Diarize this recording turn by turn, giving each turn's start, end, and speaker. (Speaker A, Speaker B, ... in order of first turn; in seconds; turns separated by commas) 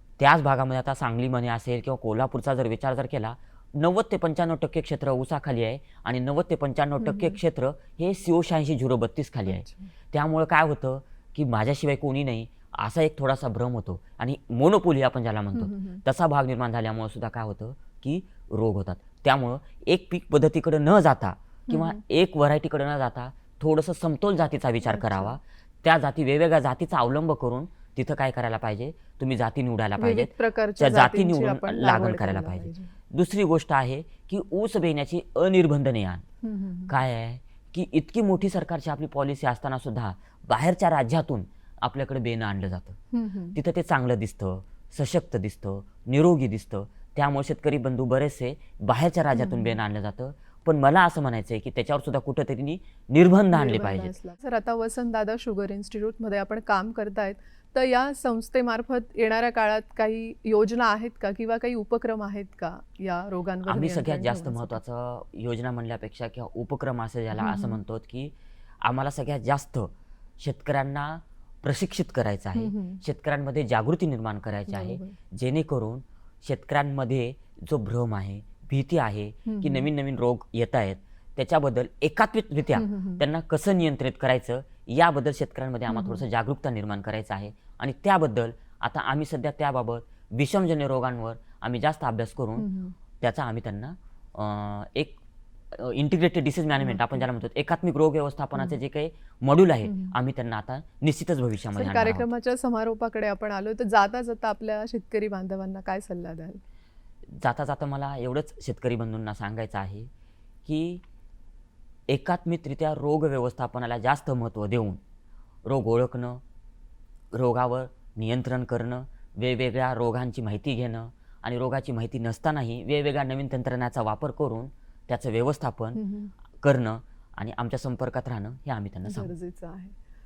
Speaker A: 0.2-36.2, Speaker B: 7.0-7.4, Speaker B: 9.4-9.9, Speaker B: 15.5-16.0, Speaker B: 21.7-22.0, Speaker B: 24.9-25.4, Speaker B: 30.0-32.9, Speaker B: 36.4-36.9, Speaker A: 36.9-43.0, Speaker B: 43.1-43.6, Speaker A: 43.5-54.1, Speaker B: 49.3-49.8, Speaker B: 53.5-64.8, Speaker A: 63.6-92.7, Speaker B: 67.3-67.8, Speaker B: 72.5-73.0, Speaker B: 74.7-75.2, Speaker B: 79.5-79.9, Speaker B: 82.7-83.2, Speaker B: 85.9-86.2, Speaker B: 92.6-93.0, Speaker A: 93.2-95.2, Speaker A: 95.7-102.3, Speaker B: 96.8-97.2, Speaker B: 99.8-100.1, Speaker B: 101.7-106.6, Speaker A: 107.3-110.1, Speaker A: 110.6-111.0, Speaker A: 112.1-115.0, Speaker A: 115.6-116.4, Speaker A: 117.3-126.0, Speaker B: 125.9-126.3, Speaker A: 126.5-129.3, Speaker B: 129.1-129.9